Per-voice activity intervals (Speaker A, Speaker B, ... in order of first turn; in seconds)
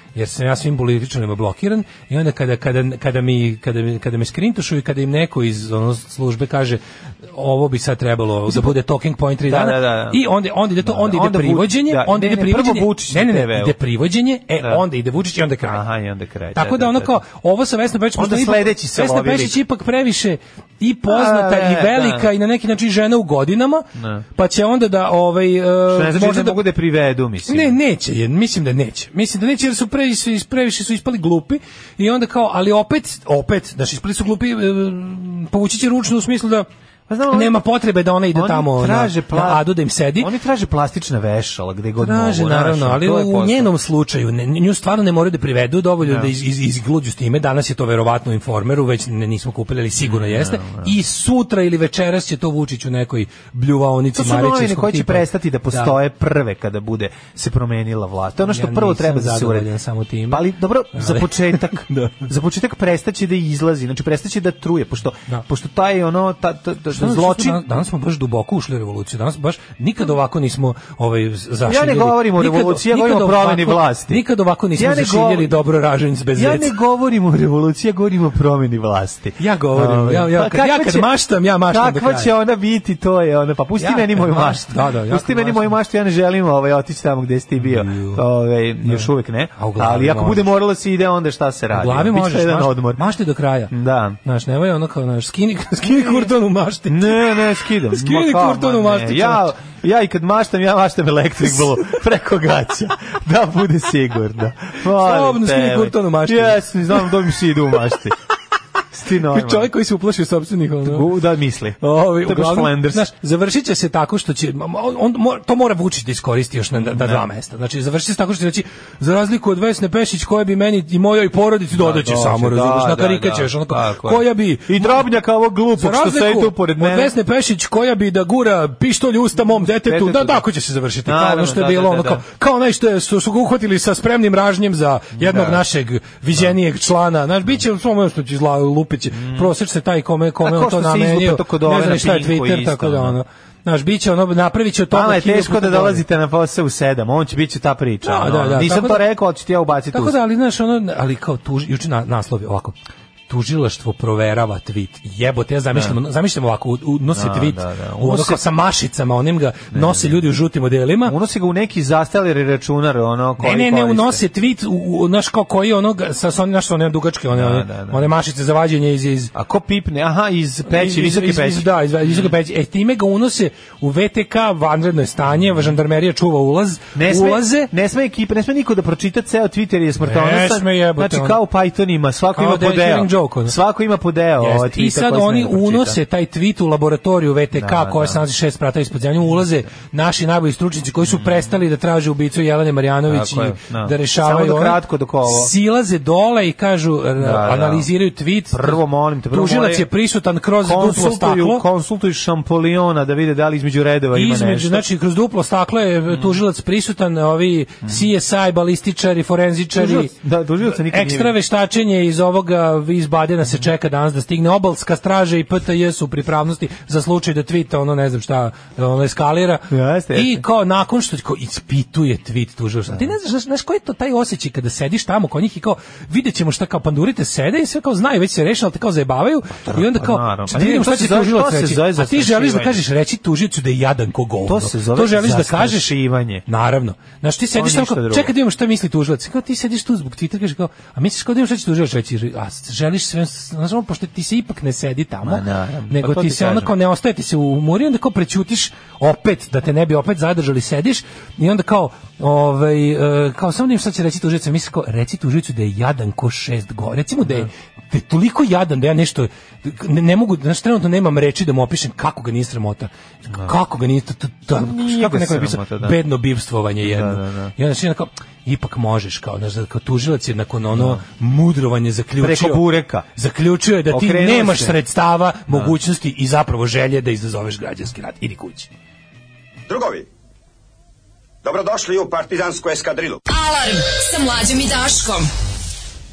Speaker A: 0.1-15.8, 16.5-26.6, 27.5-36.7, 37.3-40.3, 42.0-55.9, 58.5-62.2, 66.9-76.7, 79.4-82.3, 83.8-85.7, 87.6-88.2, 88.8-90.5, 91.7-93.7, 94.2-97.2, 97.9-99.5, 104.9-106.6, 109.2-111.1, 111.8-125.0, 125.8-146.0, 148.0-149.0, 149.9-152.7, 153.3-161.1, 163.4-169.3, 170.7-177.7, 180.0-181.4, 182.3-183.5, 184.4-201.6, 204.1-210.1, 210.8-235.9, 236.4-272.6, 273.1-278.7
Speaker B: 8.5-8.7, 9.5-10.2, 10.8-13.7, 15.7-17.1, 18.1-19.6, 21.1-22.3, 23.9-24.2, 25.9-27.8, 37.1-37.6, 38.3-39.7, 40.2-43.7, 46.0-46.3, 50.0-50.9, 54.1-59.7, 60.3-67.7, 71.7-74.2, 74.8-75.5, 76.3-81.1, 81.7-93.0, 93.7-94.2, 95.9-96.3, 96.9-108.2, 108.9-109.7, 110.8-113.1, 116.8-117.2, 121.7-127.1, 129.6-130.4, 131.1-132.2, 135.2-135.6, 139.1-139.5, 140.4-143.2, 144.9-150.2, 157.1-158.4, 159.7-160.2, 161.1-164.2, 167.3-168.1, 169.3-172.3, 176.9-186.0, 187.6-188.2, 191.1-191.5, 193.1-195.5, 197.2-197.9, 198.5-199.9, 200.6-204.8, 209.7-211.3, 219.7-220.4, 229.6-232.8, 234.4-236.4, 237.5-238.3, 245.2-246.7, 264.5-266.0, 266.8-267.5, 270.7-271.0, 272.2-273.1, 273.9-274.8
Speaker C: 279.7-280.1, 281.4-283.2
Speaker D: 283.3-285.3